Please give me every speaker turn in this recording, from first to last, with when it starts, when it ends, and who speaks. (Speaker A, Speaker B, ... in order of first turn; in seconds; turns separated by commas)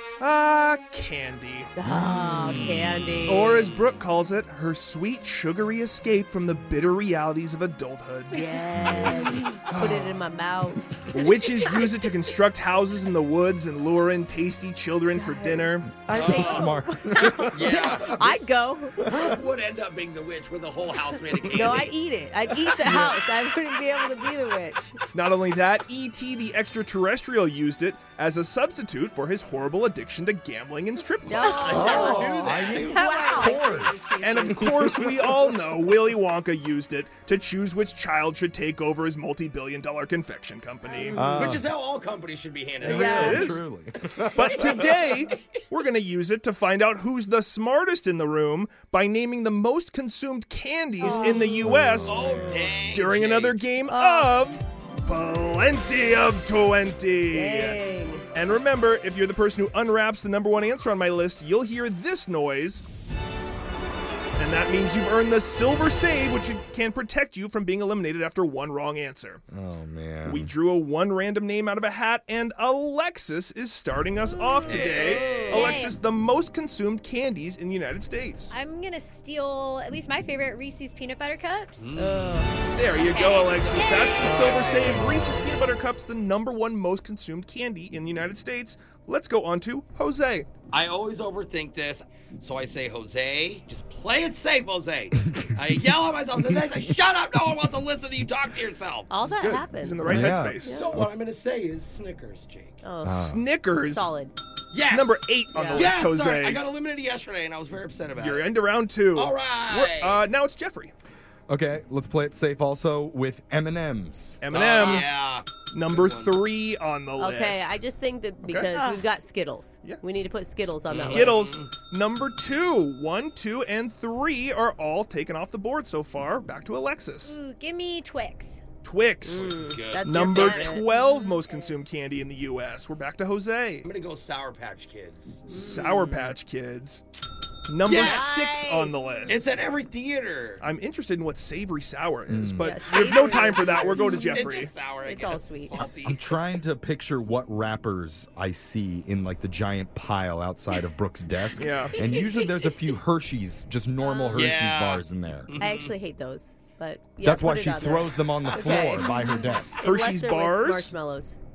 Speaker A: 0.2-1.7, Speaker B: 1.8-3.7, Speaker C: 1.9-2.8, Speaker D: 2.4-3.0, Speaker A: 3.3-8.6, Speaker B: 8.3-10.9, Speaker C: 8.8-9.5, Speaker A: 9.7-10.2, Speaker A: 11.1-16.1, Speaker B: 11.5-12.0, Speaker B: 15.2-19.1, Speaker C: 16.1-18.0, Speaker D: 16.1-16.7, Speaker D: 17.5-18.5, Speaker D: 19.0-21.9, Speaker B: 21.5-25.0, Speaker A: 22.9-23.2, Speaker A: 25.1-32.0, Speaker B: 31.2-34.8, Speaker D: 31.4-33.1, Speaker C: 31.7-35.4, Speaker E: 32.5-33.6, Speaker A: 34.2-41.2, Speaker B: 40.9-41.6, Speaker C: 41.1-41.7, Speaker D: 41.3-43.2, Speaker C: 42.8-44.7, Speaker B: 42.9-43.5, Speaker A: 42.9-43.6, Speaker D: 44.2-45.6, Speaker A: 44.4-62.8, Speaker B: 51.0-52.7, Speaker E: 51.0-51.3, Speaker C: 51.6-52.1, Speaker D: 52.0-53.6, Speaker B: 53.9-54.4, Speaker B: 57.3-58.3, Speaker A: 64.4-69.4, Speaker C: 69.5-70.5, Speaker A: 70.3-78.5, Speaker E: 74.2-76.0, Speaker D: 74.6-75.8, Speaker E: 78.5-81.9, Speaker D: 81.8-82.4, Speaker B: 82.0-82.6, Speaker A: 82.8-90.6, Speaker E: 82.9-84.8, Speaker D: 83.9-85.0, Speaker C: 84.3-85.3, Speaker D: 90.7-99.2, Speaker B: 99.1-100.9, Speaker A: 99.2-100.8, Speaker C: 100.1-101.1, Speaker D: 100.7-102.8, Speaker B: 102.8-104.3, Speaker C: 103.0-103.5, Speaker A: 103.2-104.1, Speaker D: 104.7-108.5, Speaker A: 104.8-106.6, Speaker B: 105.5-105.9, Speaker A: 108.1-110.9, Speaker D: 109.1-110.2, Speaker C: 111.5-114.4, Speaker A: 114.4-117.8, Speaker D: 114.5-116.4, Speaker B: 117.2-121.5, Speaker A: 118.4-118.7, Speaker E: 118.7-119.1, Speaker A: 119.8-120.2, Speaker D: 120.9-121.8, Speaker A: 121.1-127.4, Speaker E: 127.2-128.6, Speaker A: 128.8-129.5, Speaker B: 129.2-130.9, Speaker D: 129.3-130.7, Speaker A: 130.0-133.9, Speaker E: 130.3-131.8, Speaker D: 133.8-135.6, Speaker A: 135.5-137.0, Speaker B: 135.5-136.3, Speaker A: 137.7-139.5, Speaker D: 137.8-138.7, Speaker B: 138.0-139.3, Speaker D: 139.2-140.6, Speaker A: 140.6-144.8, Speaker C: 142.3-142.8, Speaker B: 142.6-144.5, Speaker D: 143.7-146.4, Speaker B: 145.0-145.9, Speaker C: 146.0-155.5, Speaker A: 151.6-152.0, Speaker E: 154.0-154.5, Speaker D: 154.3-155.9, Speaker B: 155.6-159.1, Speaker C: 157.2-159.8, Speaker D: 158.5-159.1, Speaker E: 159.2-159.5, Speaker A: 159.8-160.9, Speaker B: 159.8-161.4